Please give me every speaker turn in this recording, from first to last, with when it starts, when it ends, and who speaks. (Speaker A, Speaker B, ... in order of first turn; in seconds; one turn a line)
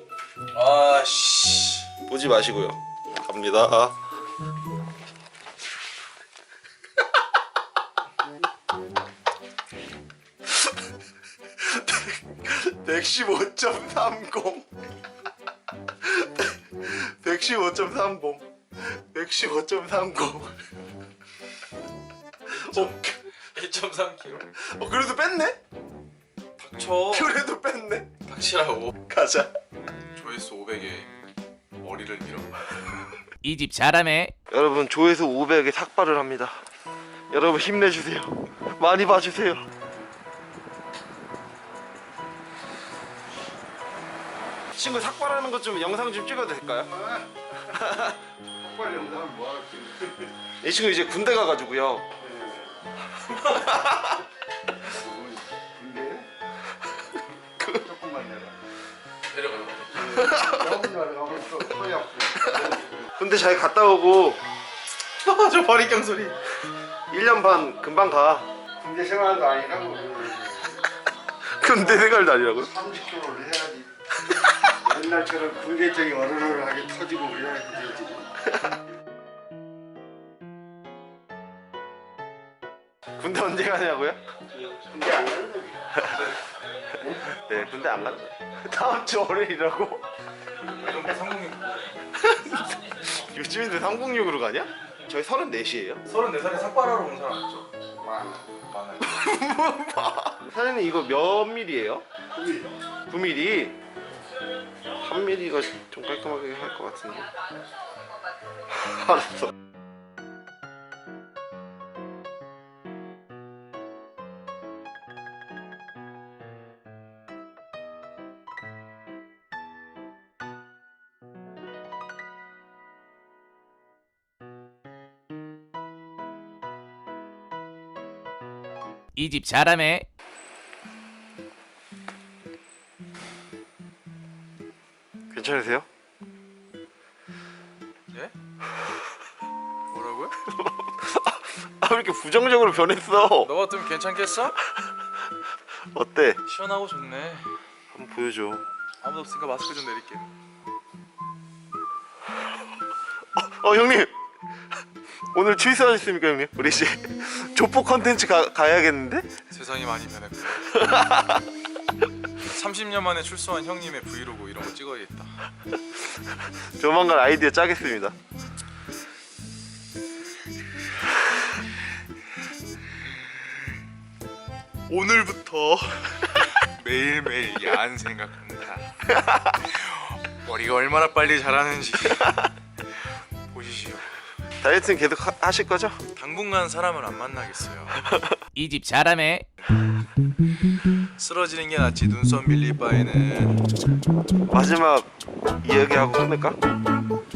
Speaker A: 0.5-1.9
Speaker B: 2.1-4.0
Speaker B: 11.6-14.7
Speaker B: 16.0-20.7
Speaker B: 22.5-23.2
Speaker A: 22.5-24.5
Speaker B: 24.6-25.6
Speaker A: 26.6-27.4
Speaker B: 27.1-28.1
Speaker A: 28.2-28.9
Speaker B: 29.0-29.5
Speaker A: 30.1-31.1
Speaker A: 31.8-32.9
Speaker C: 33.4-34.3
Speaker B: 34.5-36.7
Speaker B: 37.3-39.7
Speaker B: 44.8-46.9
Speaker D: 46.9-47.6
Speaker B: 47.7-48.2
Speaker D: 48.6-50.3
Speaker B: 50.6-52.1
Speaker D: 52.2-52.8
Speaker B: 53.2-54.2
Speaker D: 54.8-56.3
Speaker B: 57.6-57.9
Speaker D: 57.8-58.6
Speaker A: 59.3-60.1
Speaker D: 59.9-63.1
Speaker B: 60.2-60.9
Speaker B: 63.2-64.4
Speaker A: 65.2-66.4
Speaker B: 67.1-68.5
Speaker D: 68.8-70.8
Speaker B: 71.5-72.8
Speaker D: 71.8-72.1
Speaker D: 72.7-73.9
Speaker D: 74.8-78.3
Speaker B: 83.2-84.2
Speaker D: 84.6-86.0
Speaker B: 86.0-86.3
Speaker B: 87.2-90.0
Speaker A: 90.6-92.0
Speaker B: 92.2-96.0
Speaker A: 96.1-97.7
Speaker D: 98.0-98.5
Speaker A: 98.7-99.3
Speaker B: 99.0-102.0
Speaker D: 102.3-102.7
Speaker B: 103.1-103.8
Speaker B: 105.0-107.3
Speaker B: 108.7-109.5
Speaker C: 129.2-130.1
Speaker B: 135.3-135.9
Speaker A: 139.9-140.4
Speaker B: 140.4-143.5
Speaker A: 143.4-144.6
Speaker B: 145.9-146.4
Speaker A: 146.4-147.6
Speaker B: 147.9-148.7
Speaker A: 149.0-150.3
Speaker B: 153.4-154.1
Speaker B: 155.3-159.3
Speaker A: 159.5-160.8
Speaker B: 160.7-161.5
Speaker A: 162.4-165.4
Speaker B: 166.8-168.2
Speaker A: 174.9-182.5
Speaker A: 183.5-184.2
Speaker B: 184.6-186.0
Speaker A: 186.1-188.1
Speaker B: 188.1-188.4
Speaker C: 188.6-189.5
Speaker A: 191.0-193.7
Speaker B: 194.5-196.6